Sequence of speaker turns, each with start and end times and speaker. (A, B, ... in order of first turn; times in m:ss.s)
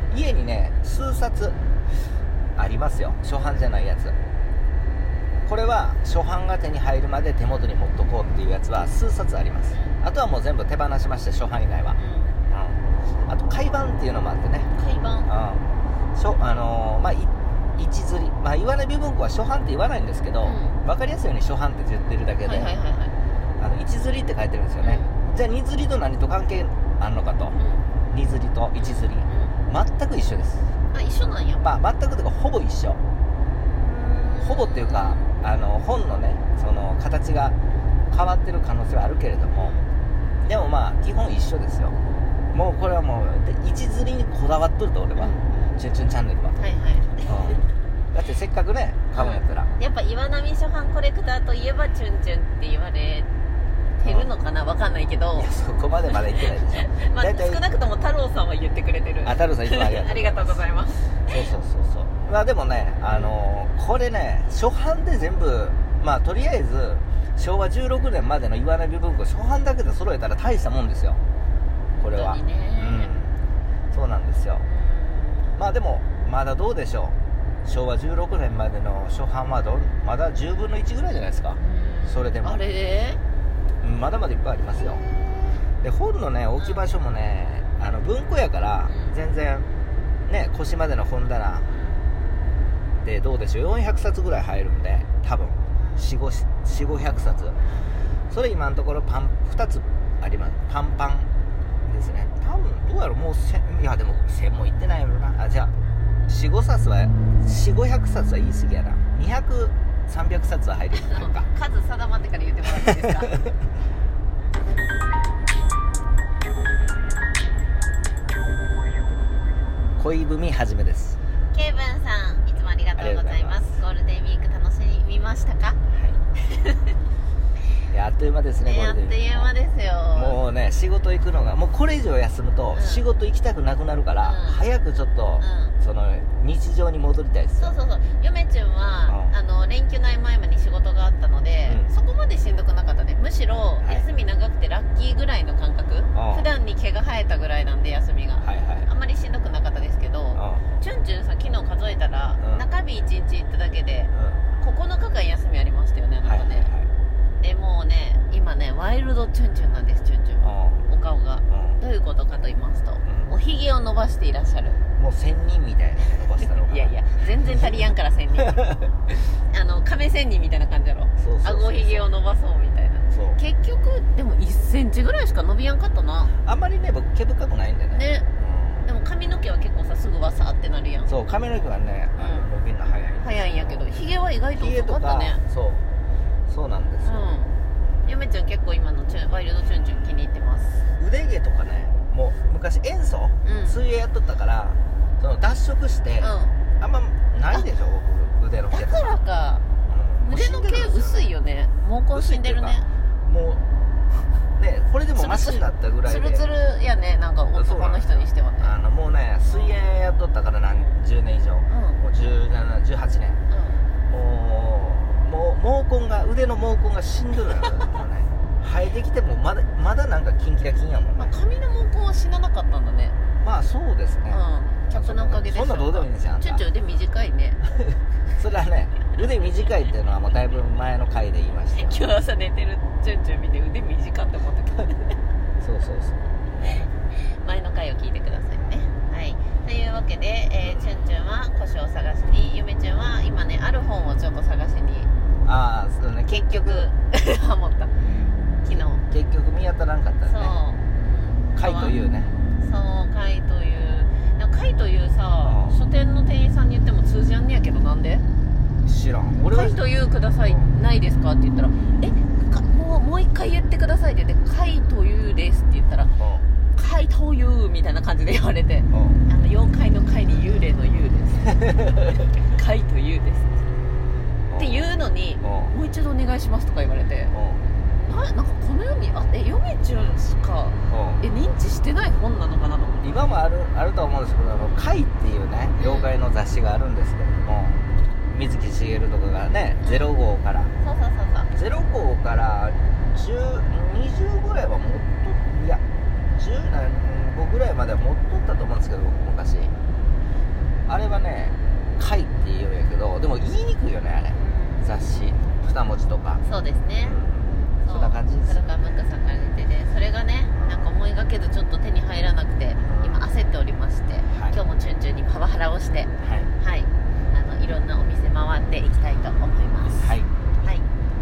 0:00.1-0:01.6 A
0:02.6-0:04.2 A
0:05.5-0:12.0 A
0:09.7-0:10.0 B
0:12.0-0:12.4 B
0:12.5-0:14.7 A
0:14.6-0:15.3 B
0:15.2-0:22.7 A
0:20.4-0:20.8 B
0:22.4-0:23.1 B
0:23.6-0:27.6 A
0:24.8-0:25.2 B
0:27.6-0:27.9 B
0:28.1-0:30.7 A
0:28.8-0:29.6 B
0:30.9-0:31.7 B
0:31.6-0:33.0 A
0:33.7-0:35.3 B
0:34.4-0:37.6 A
0:38.1-0:39.8 A
0:39.5-0:39.9 B
0:40.4-0:41.9 A
0:42.5-0:46.6 A
0:45.2-0:45.6 B
0:46.6-0:47.4 B
0:47.2-0:47.6 A
0:48.1-0:49.7 A
0:49.1-0:53.3 B
0:54.0-0:55.5 B
0:55.4-0:57.6 A
0:56.8-1:01.3 B
0:59.2-1:11.2 A
1:03.1-1:03.4 B
1:12.0-1:13.4 A
1:12.1-1:13.1 B
1:13.9-1:14.7 A
1:14.6-1:15.6 B
1:15.6-1:22.6 A
1:21.6-1:23.2 B
1:23.8-1:25.0 A
1:25.8-1:29.7 A
1:28.9-1:29.2 B
1:30.3-1:31.7 A
1:31.7-1:32.0 B
1:33.0-1:37.6 A
1:35.8-1:36.1 B
1:38.3-1:41.3 A
1:41.8-1:45.7 A
1:46.3-1:51.5 A
1:51.0-1:53.4 B
2:00.0-2:01.2 A
2:01.5-2:05.8 B
2:03.0-2:03.6 A
2:05.9-2:06.2 A
2:06.5-2:06.8 B
2:07.9-2:09.5 A
2:08.6-2:10.4 B
2:10.2-2:17.7 A
2:12.7-2:13.0 B
2:14.2-2:14.6 B
2:15.4-2:15.8 B
2:17.6-2:36.7 B
2:19.1-2:19.4 A
2:21.7-2:21.9 A
2:23.8-2:24.1 A
2:26.1-2:26.5 A
2:28.4-2:28.9 A
2:30.3-2:30.7 A
2:32.4-2:32.6 A
2:34.1-2:34.4 A
2:36.2-2:36.9 A
2:37.4-2:44.8 B
2:40.4-2:40.9 A
2:41.5-2:41.8 A
2:43.0-2:43.3 A
2:45.0-2:47.0 A
2:46.6-2:48.6 B
2:49.5-2:56.3 B
2:51.2-2:52.1 A
2:53.1-2:53.4 A
2:56.4-2:58.9 A
2:57.9-2:58.3 B
2:58.8-3:01.1 B
3:01.1-3:04.0 A
3:02.2-3:02.5 B
3:03.2-3:05.4 B
3:04.6-3:05.8 A
3:06.5-3:07.2 A
3:07.0-3:10.8 B
3:11.0-3:19.2 A
3:13.4-3:13.8 B
3:16.2-3:16.6 B
3:18.7-3:19.6 B
3:19.9-3:21.3 A
3:20.2-3:22.9 B
3:22.1-3:26.5 A
3:25.2-3:28.7 B
3:27.5-3:33.4 A
3:30.7-3:31.0 B
3:31.7-3:32.0 B
3:33.5-3:33.9 B
3:34.1-3:41.4 A
3:41.2-3:43.2 B
3:43.4-3:46.6 A
3:44.3-3:47.6 B
3:48.4-3:52.0 A
3:51.8-3:55.2 B
3:55.6-3:56.9 A
3:57.1-4:05.1 B
4:00.6-4:01.0 A
4:05.4-4:06.9 A
4:06.3-4:09.0 B
4:08.7-4:10.6 A
4:10.3-4:12.0 B
4:11.6-4:12.3 A
4:12.6-4:18.2 B
4:15.4-4:15.8 A
4:18.8-4:19.8 A
4:19.5-4:26.1 B
4:26.2-4:26.5 A
4:26.7-4:33.6 B
4:28.9-4:29.2 A
4:34.5-4:34.9 A
4:34.6-4:37.3 B
4:35.4-4:35.7 A
4:37.3-4:37.6 A
4:38.0-4:43.1 B
4:40.9-4:41.2 A
4:43.0-4:50.7 A
4:45.8-4:46.1 B
4:49.8-4:50.1 B
4:50.8-4:51.5 B
4:51.5-4:55.8 A
4:56.4-4:59.7 A
5:00.9-5:06.4 A
5:04.4-5:04.9 B
5:06.4-5:07.2 B
5:07.0-5:08.6 A
5:07.8-5:20.1 B
5:10.5-5:10.9 A
5:12.8-5:13.2 A
5:14.3-5:14.6 A
5:16.2-5:16.5 A
5:19.9-5:20.3 A